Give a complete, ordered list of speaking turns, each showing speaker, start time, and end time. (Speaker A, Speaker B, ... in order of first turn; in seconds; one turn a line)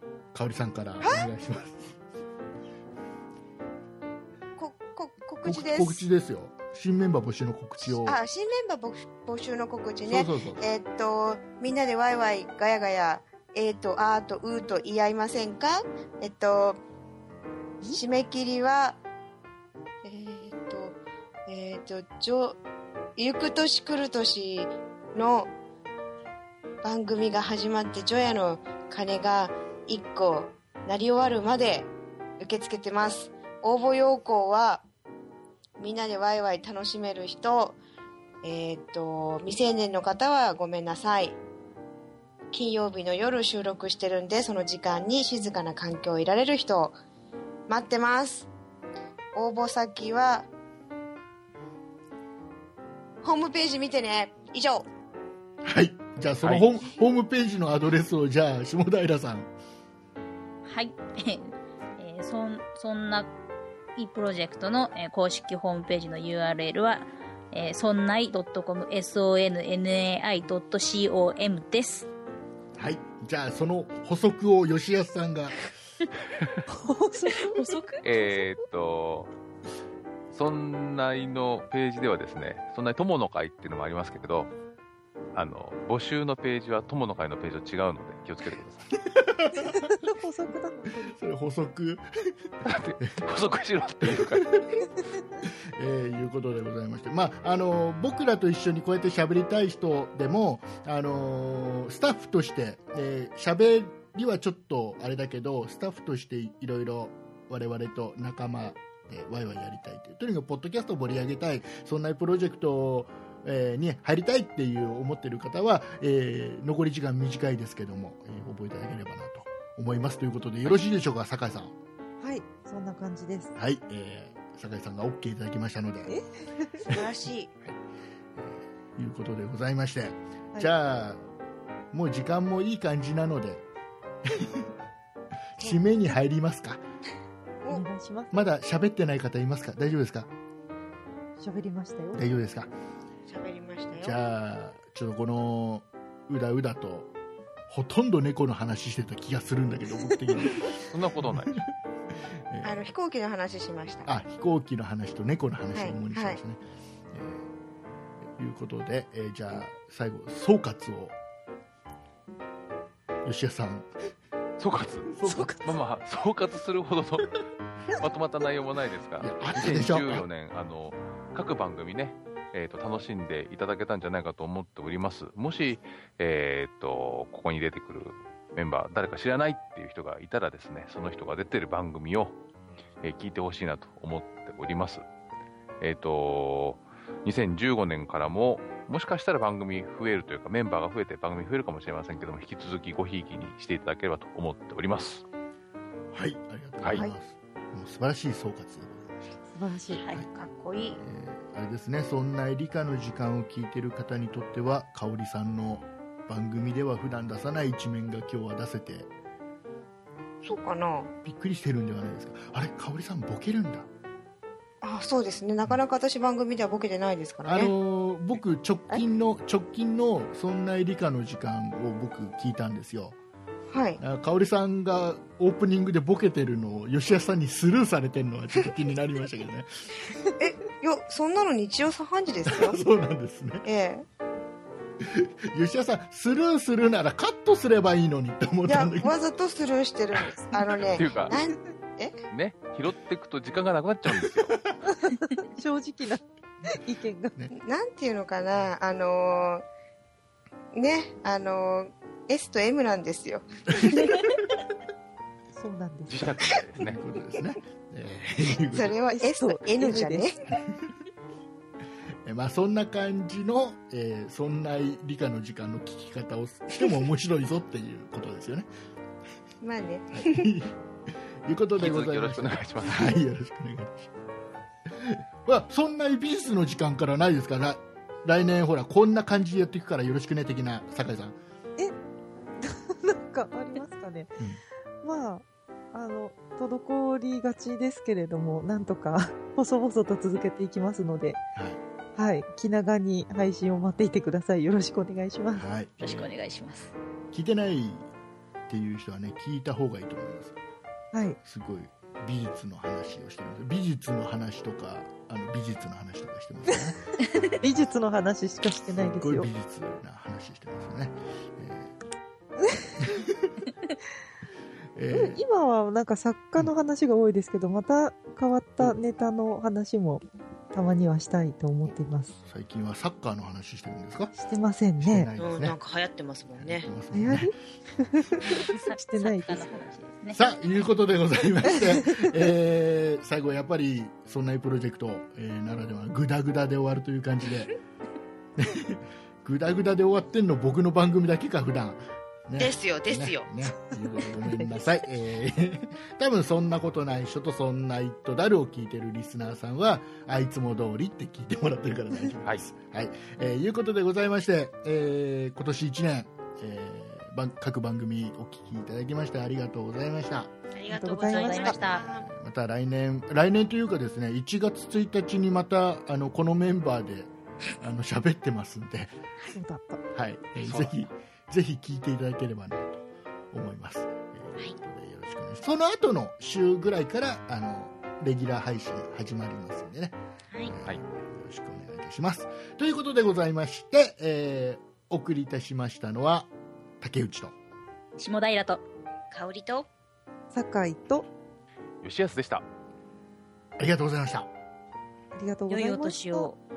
Speaker A: 0.3-2.0
Speaker B: 1.0-1.3
Speaker B: 4.6-6.0
Speaker A: 5.4-8.2
Speaker B: 8.0-16.8
Speaker A: 10.1-10.6
Speaker B: 17.9-19.0
Speaker B: 20.0-22.6
Speaker B: 23.2-25.5
Speaker B: 26.8-34.9
Speaker B: 35.8-37.8
Speaker B: 38.4-41.4
Speaker B: 42.5-46.9
Speaker B: 47.7-48.5
Speaker B: 49.3-50.5
Speaker B: 53.2-54.9
Speaker A: 55.6-59.5
Speaker C: 56.4-56.7
Speaker D: 60.6-63.3
Speaker D: 64.0-72.1
Speaker A: 72.8-75.7
Speaker E: 76.7-78.4
Speaker C: 78.0-79.3
Speaker C: 80.3-84.5
Speaker C: 85.3-88.9
Speaker A: 89.1-89.9
Speaker E: 89.5-91.2
Speaker A: 91.0-92.0
Speaker C: 92.6-94.6
Speaker A: 94.0-94.8
Speaker A: 95.4-121.7
Speaker E: 122.2-123.5
Speaker A: 123.5-126.1
Speaker E: 126.1-126.8
Speaker B: 126.9-127.5
Speaker A: 128.3-131.2
Speaker A: 131.9-133.6
Speaker A: 134.2-134.7
Speaker A: 135.6-136.8
Speaker E: 137.7-138.4
Speaker A: 138.3-140.3
Speaker E: 141.4-142.3
Speaker A: 142.1-142.7
Speaker B: 143.3-144.2
Speaker A: 144.0-147.1
Speaker A: 147.7-151.7
Speaker E: 150.1-150.6
Speaker C: 150.6-151.6
Speaker A: 152.4-152.8
Speaker B: 152.6-154.1
Speaker A: 154.1-156.6
Speaker B: 155.7-156.4
Speaker A: 157.1-157.4
Speaker A: 158.3-161.2
Speaker A: 163.2-163.9
Speaker C: 164.6-167.3
Speaker A: 165.1-165.7
Speaker C: 167.9-182.4
Speaker A: 169.2-170.2
Speaker C: 183.0-185.0
Speaker C: 185.8-195.2
Speaker A: 196.1-199.3
Speaker E: 199.5-200.1
Speaker B: 200.3-201.0
Speaker A: 201.0-209.1
Speaker B: 210.4-211.1
Speaker A: 211.2-213.9
Speaker B: 214.8-217.7
Speaker A: 217.4-223.2
Speaker B: 223.7-224.0
Speaker A: 224.0-229.9
Speaker B: 230.4-232.8
Speaker A: 232.4-233.7
Speaker B: 233.6-234.1
Speaker A: 235.0-239.1
Speaker B: 238.7-242.2
Speaker C: 240.9-241.3
Speaker C: 242.3-244.6
Speaker E: 244.8-247.3
Speaker B: 247.5-249.6
Speaker B: 250.7-254.2
Speaker A: 253.9-254.3
Speaker E: 255.5-256.3
Speaker C: 256.1-257.0
Speaker A: 256.8-259.0
Speaker B: 258.7-260.5
Speaker E: 259.1-260.2
Speaker A: 262.2-268.7
Speaker B: 269.6-270.5
Speaker A: 270.1-270.7
Speaker A: 271.4-274.1
Speaker C: 271.7-273.1
Speaker A: 274.9-281.4
Speaker E: 282.6-284.4
Speaker E: 285.0-291.4
Speaker E: 292.1-295.6
Speaker A: 295.6-296.3
Speaker D: 296.0-296.9
Speaker A: 297.3-298.1
Speaker A: 298.7-300.5
Speaker E: 301.1-301.4
Speaker A: 301.4-307.1
Speaker E: 307.4-309.5
Speaker A: 308.9-311.9
Speaker A: 313.0-313.6
Speaker A: 314.9-315.4
Speaker E: 315.1-322.4
Speaker A: 322.4-324.4
Speaker E: 324.3-325.3
Speaker A: 325.0-325.8
Speaker B: 325.4-326.9
Speaker A: 326.6-327.5
Speaker E: 327.1-329.7
Speaker D: 328.5-330.4
Speaker A: 330.3-337.7
Speaker A: 338.6-360.5
Speaker B: 342.6-343.5
Speaker E: 344.4-344.8
Speaker B: 360.8-362.2
Speaker E: 360.9-361.8
Speaker D: 361.2-362.1
Speaker A: 361.8-369.1
Speaker E: 369.5-370.0
Speaker A: 370.1-387.5
Speaker C: 370.6-370.9
Speaker D: 388.2-388.8
Speaker B: 389.3-389.9
Speaker E: 390.5-391.2
Speaker C: 392.0-392.6
Speaker A: 393.8-394.5
Speaker E: 395.4-396.5
Speaker D: 395.7-396.6